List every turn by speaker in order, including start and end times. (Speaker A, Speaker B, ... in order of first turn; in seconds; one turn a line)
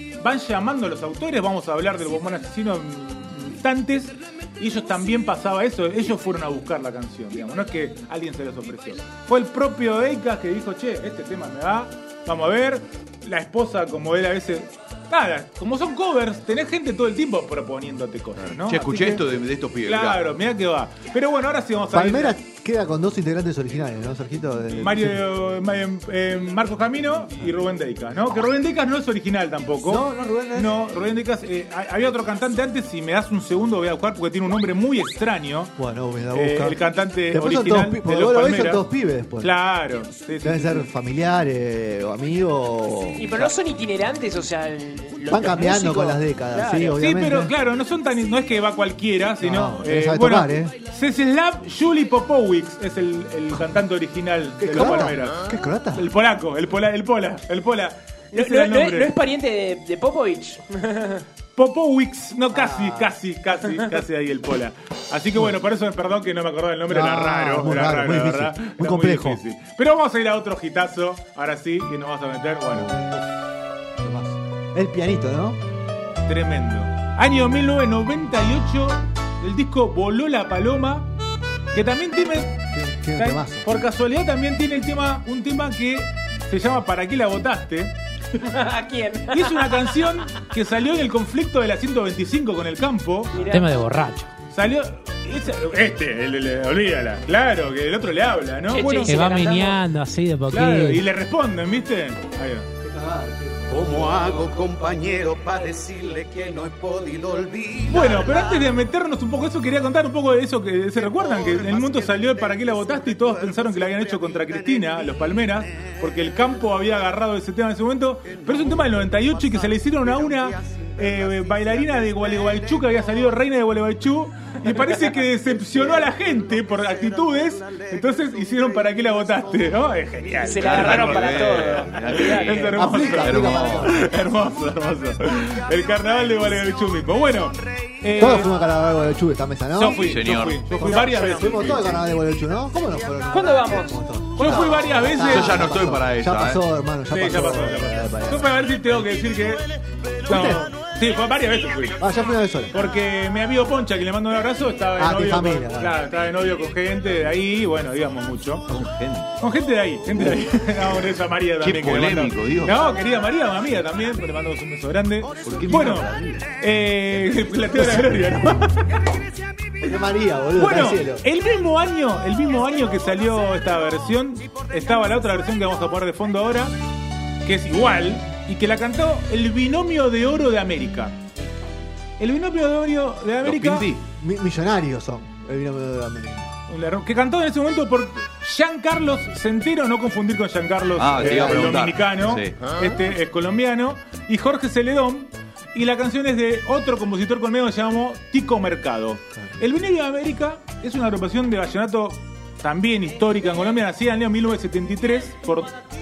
Speaker A: 0.2-19.2
Speaker B: 18.4-20.2
Speaker A: 19.8-22.4
Speaker C: 21.9-25.2
Speaker A: 24.7-35.7
Speaker C: 29.8-30.8
Speaker C: 35.8-39.5
Speaker A: 36.3-38.8
Speaker A: 39.4-40.9
Speaker C: 40.4-43.5
Speaker D: 43.1-47.0
Speaker C: 45.3-47.5
Speaker A: 47.0-59.1
Speaker C: 49.4-50.7
Speaker C: 54.6-56.1
Speaker D: 58.3-61.2
Speaker A: 61.5-73.0
Speaker C: 66.9-69.4
Speaker C: 72.7-73.2
Speaker C: 74.0-75.6
Speaker A: 76.3-81.1
Speaker A: 81.7-82.6
Speaker C: 82.7-83.7
Speaker A: 83.2-87.9
Speaker D: 88.4-90.1
Speaker A: 89.3-93.4
Speaker D: 93.3-93.7
Speaker E: 93.4-94.3
Speaker A: 94.5-99.2
Speaker D: 98.7-99.8
Speaker E: 99.0-101.0
Speaker A: 100.5-102.7
Speaker C: 102.8-104.4
Speaker F: 103.7-108.4
Speaker A: 107.9-138.5
Speaker D: 130.4-132.8
Speaker B: 130.6-133.9
Speaker C: 132.7-134.0
Speaker C: 138.2-148.6
Speaker A: 139.7-141.9
Speaker B: 139.9-140.7
Speaker D: 140.9-141.4
Speaker D: 143.3-144.5
Speaker A: 144.4-145.7
Speaker B: 145.2-146.6
Speaker A: 147.1-149.7
Speaker A: 150.2-152.0
Speaker C: 150.3-150.7
Speaker C: 152.0-152.8
Speaker A: 152.7-158.7
Speaker C: 155.0-156.0
Speaker B: 158.7-159.3
Speaker A: 159.4-169.0
Speaker B: 161.6-162.8
Speaker B: 165.4-166.4
Speaker C: 169.8-171.2
Speaker A: 170.6-176.8
Speaker A: 177.4-181.2
Speaker A: 182.2-183.9
Speaker B: 183.4-184.0
Speaker C: 184.2-186.5
Speaker A: 186.7-205.7
Speaker B: 190.9-192.7
Speaker C: 191.2-191.8
Speaker C: 199.3-199.6